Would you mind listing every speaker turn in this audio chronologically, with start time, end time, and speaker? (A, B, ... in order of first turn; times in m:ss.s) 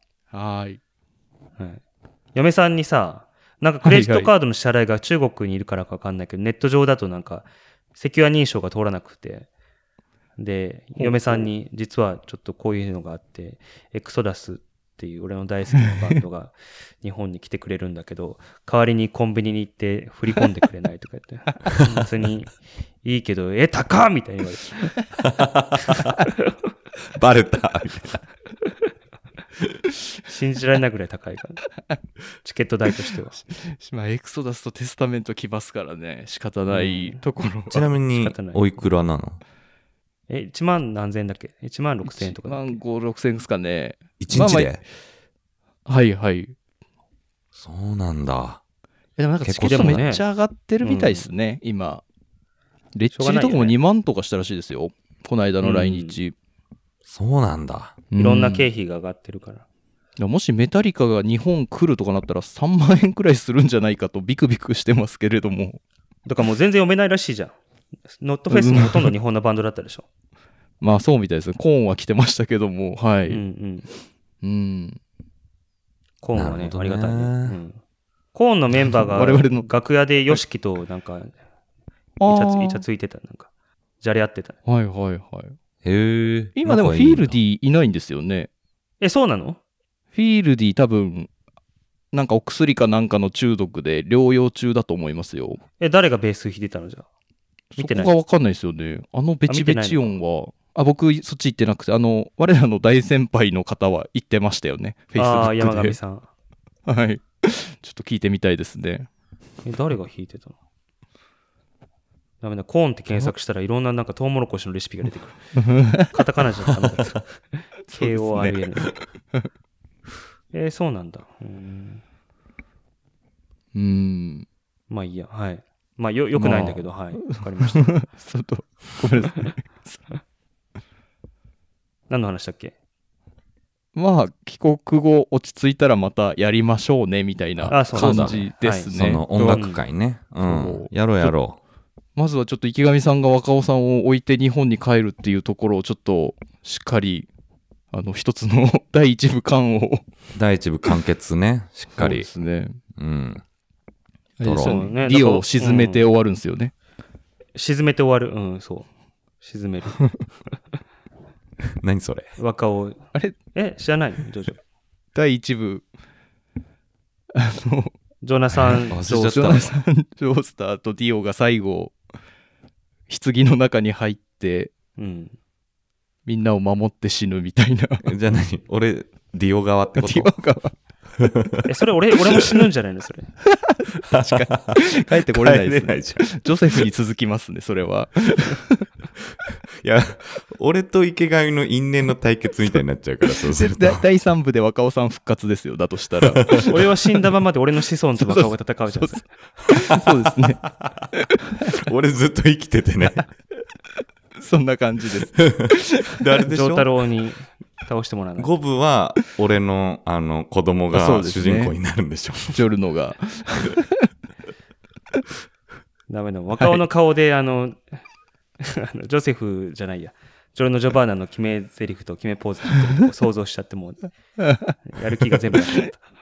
0:00.3-0:00.8 A
0:02.4-0:09.5 B
0:03.8-0:04.3 A
0:10.4-0:25.0 B
0:11.0-0:11.5 A
0:25.2-0:26.2 C
0:25.9-0:26.5 B
0:27.1-0:28.2 C
0:30.3-0:31.6 B
0:32.4-0:33.4 B
0:33.4-0:37.9 A
0:36.7-0:37.2 B
0:37.7-0:39.4 C
0:38.1-0:38.7 B
0:40.3-0:42.8 B
0:42.0-0:44.8 A
0:44.2-0:44.8 C
0:45.9-0:46.6 A
0:47.6-0:48.6 C
0:49.2-0:52.0 A
0:49.4-0:50.0 C
0:49.6-0:50.2 B
0:50.8-0:51.3 B
0:53.0-0:56.3 A
0:53.1-0:53.8 B
0:55.6-0:56.2 B
0:57.0-0:58.0 C
0:58.1-0:58.7 A
0:58.2-0:59.6 B
1:00.2-1:05.8 A
1:06.3-1:07.6 B
1:08.1-1:10.1 B
1:08.5-1:09.1 A
1:10.8-1:13.4 A
1:13.3-1:13.9 B
1:14.4-1:15.0 A
1:16.2-1:17.8 B
1:16.4-1:17.6 C
1:18.3-1:21.4 B
1:19.1-1:19.7 A
1:22.2-1:22.8 A
1:22.2-1:23.5 B
1:24.0-1:24.6 B
1:24.7-1:25.6 A
1:25.8-1:27.4 C
1:26.6-1:28.5 A
1:29.0-1:29.6 B
1:30.2-1:31.3 A
1:32.1-1:35.6 A
1:35.8-1:37.1 B
1:37.8-1:46.0 A
1:37.8-1:38.1 B
1:39.5-1:40.2 B
1:45.2-1:46.3 B
1:46.9-1:49.1 A
1:49.6-1:50.6 B
1:52.4-1:58.9 B
1:55.6-1:56.2 A
1:57.9-1:59.4 A
2:00.5-2:02.0 B
2:03.7-2:04.5 A
2:04.9-2:08.0 B
2:06.4-2:10.0 A
2:12.1-2:12.7 B
2:14.0-2:19.7 A
2:17.6-2:21.6 C
2:17.7-2:18.9 B
2:19.5-2:19.8 B
2:20.4-2:21.3 A
2:22.2-2:27.3 A
2:27.9-2:30.0 A
2:30.4-2:32.3 C
2:31.9-2:32.8 A
2:33.0-2:33.4 C
2:34.4-2:36.7 A
2:34.4-2:34.8 C
2:34.6-2:36.0 B
2:37.6-2:38.9 B
2:39.4-2:40.0 B
2:41.8-2:42.3 C
2:42.4-2:44.6 B
2:45.2-2:45.8 A
2:47.4-2:47.9 A
2:48.2-2:49.1 B
2:48.5-2:49.7 C
2:48.7-2:52.0 A
2:53.1-2:54.7 A
2:55.0-2:55.4 B
2:56.3-2:58.2 A
2:58.0-3:00.3 C
3:00.0-3:00.7 A
3:01.2-3:01.6 C
3:01.6-3:03.3 B
3:03.5-3:08.9 A
3:04.1-3:06.9 C
3:09.8-3:14.0 C
3:13.3-3:16.8 A
3:16.2-3:16.7 C
3:16.5-3:19.2 B
3:18.2-3:20.7 A
3:20.7-3:21.1 C
3:21.2-3:21.8 A
3:21.6-3:23.3 C
3:24.4-3:26.4 A
3:25.5-3:26.9 C
3:26.5-3:28.5 B
3:28.4-3:32.6 C
3:30.9-3:31.7 A
3:32.5-3:34.0 A
3:36.1-3:37.8 B
3:38.6-3:44.1 B
3:44.4-3:44.8 A
3:44.9-3:46.0 B
3:45.4-3:45.9 A